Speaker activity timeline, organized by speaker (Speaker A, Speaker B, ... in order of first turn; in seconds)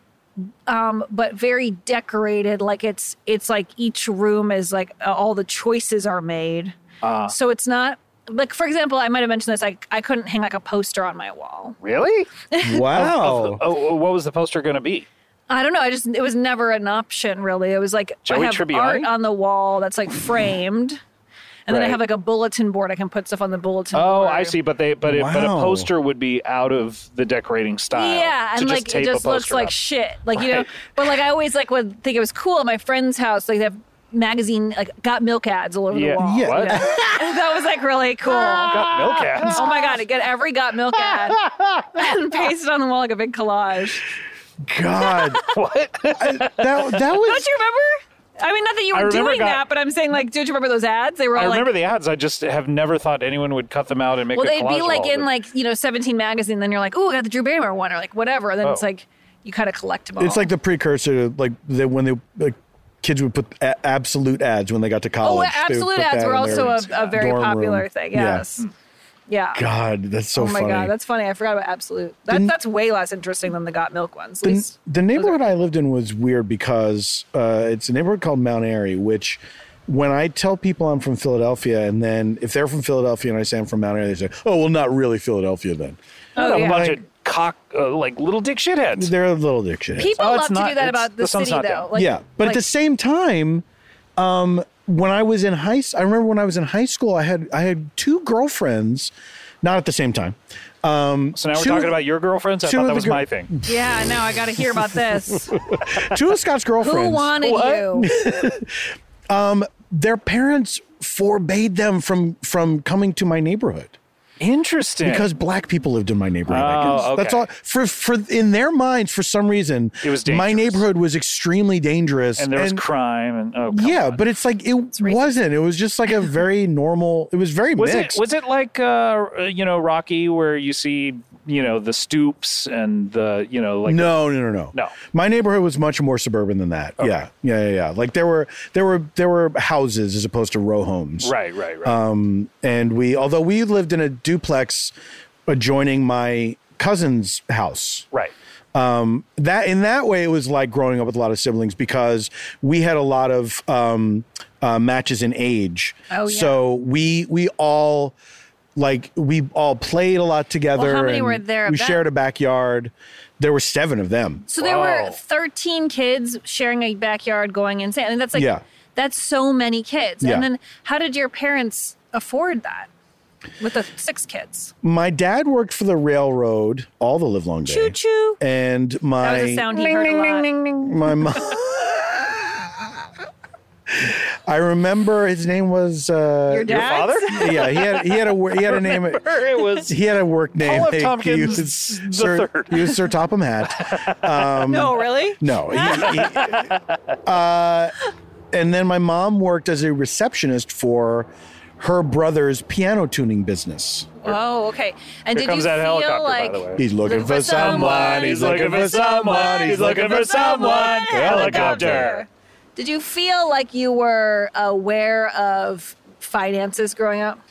Speaker A: 0.7-6.8, 7.3-11.8, 12.5-12.9, 15.5-21.0, 21.7-24.6, 27.9-38.9, 39.4-44.1, 45.0-45.4, 47.2-51.7, 54.3-60.5, 65.2-68.7, 69.3-69.6, 70.3-75.4, 86.4-87.0, 90.0-92.7, 103.7-105.6, 106.8-108.1, 125.0-125.2, 156.1-156.6, 160.8-162.1, 164.5-172.9, 173.6-174.7, 177.7-178.4, 179.2-180.5, 186.5-187.8, 194.7-196.3, 204.2-217.4
Speaker B: 7.0-7.3, 11.8-12.3, 12.9-15.1, 18.3-19.1, 21.7-22.0, 23.9-29.8, 30.4-30.7, 35.9-36.8, 38.7-39.7, 45.5-47.0, 48.9-49.6, 51.4-55.3, 66.4-67.2, 86.4-89.1, 90.2-91.9, 101.3-103.5, 107.4-107.9, 114.4-115.3, 116.5-117.5, 120.0-120.8, 122.4-124.2, 127.8-134.9, 137.0-137.2, 141.2-142.0, 164.6-165.2, 179.7-181.2, 186.7-189.9, 190.6-193.1, 193.7-194.6, 195.9-197.2, 205.3-212.2
Speaker C: 12.6-13.6, 25.0-25.9, 36.2-37.4, 38.3-39.8, 41.0-42.0, 44.6-45.4, 46.2-47.5, 60.2-68.5, 69.5-70.9, 72.3-72.5, 74.4-87.0, 89.0-90.2, 91.9-93.7, 94.2-102.0, 102.6-103.7, 105.5-107.4, 108.0-114.0, 115.0-122.8, 123.7-128.2, 133.9-144.9, 145.5-148.1, 148.7-158.2, 158.8-164.5, 168.3-168.6, 170.2-170.5, 174.8-179.7, 180.8-183.0, 183.9-197.9, 198.5-204.3, 206.8-210.5, 211.1-212.1